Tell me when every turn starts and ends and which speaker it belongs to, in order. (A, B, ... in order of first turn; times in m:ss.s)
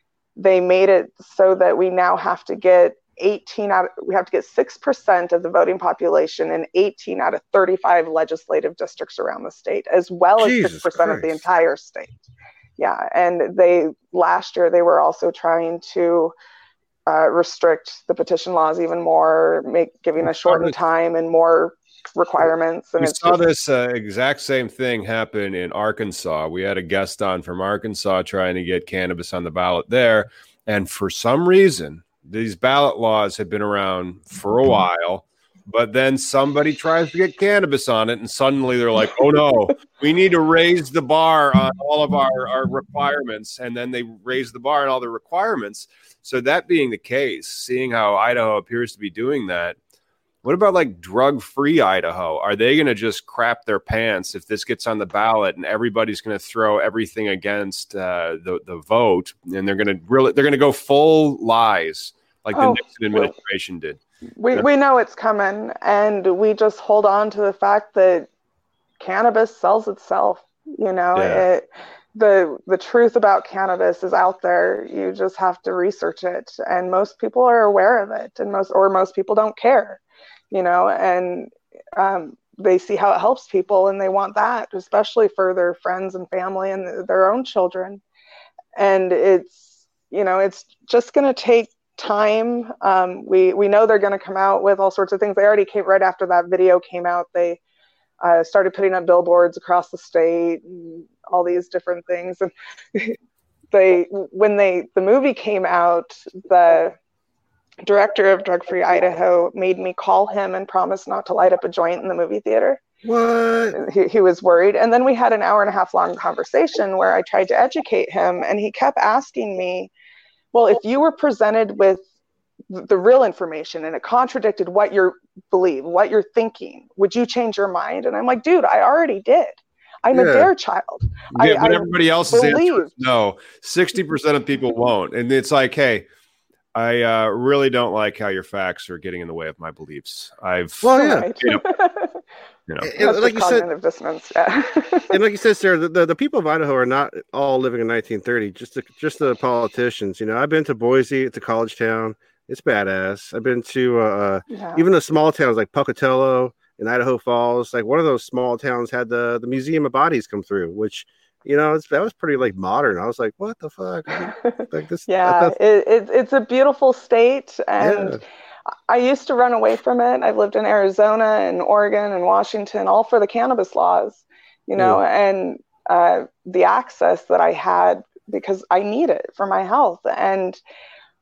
0:00.4-0:12.2 A
0:10.4-0:11.4 B
0:12.8-0:16.3 A
0:17.1-0:23.4 A
0:20.2-0:20.8 C
0:23.0-0:49.8 C
0:50.4-1:04.0 C
1:02.5-1:03.3 A
1:04.4-1:08.3 A
1:09.0-1:28.0 A
1:11.1-1:11.4 B
1:28.8-1:37.6 A
1:38.2-1:43.1 A
1:43.7-1:47.0 A
1:47.8-1:52.8 A
1:53.0-1:53.8 B
1:53.7-1:59.9 A
2:00.5-2:02.0 A
2:02.7-2:12.9 A
2:10.1-2:10.5 B
2:11.3-2:16.0 C
2:16.7-2:21.6 C
2:20.8-2:21.3 B
2:20.9-2:22.2 A
2:22.8-2:23.7 B
2:23.0-2:25.1 A
2:25.1-2:45.5 B
2:34.5-2:34.8 A
2:44.2-2:48.2 A
2:47.8-2:48.2 B
2:48.9-3:00.6 A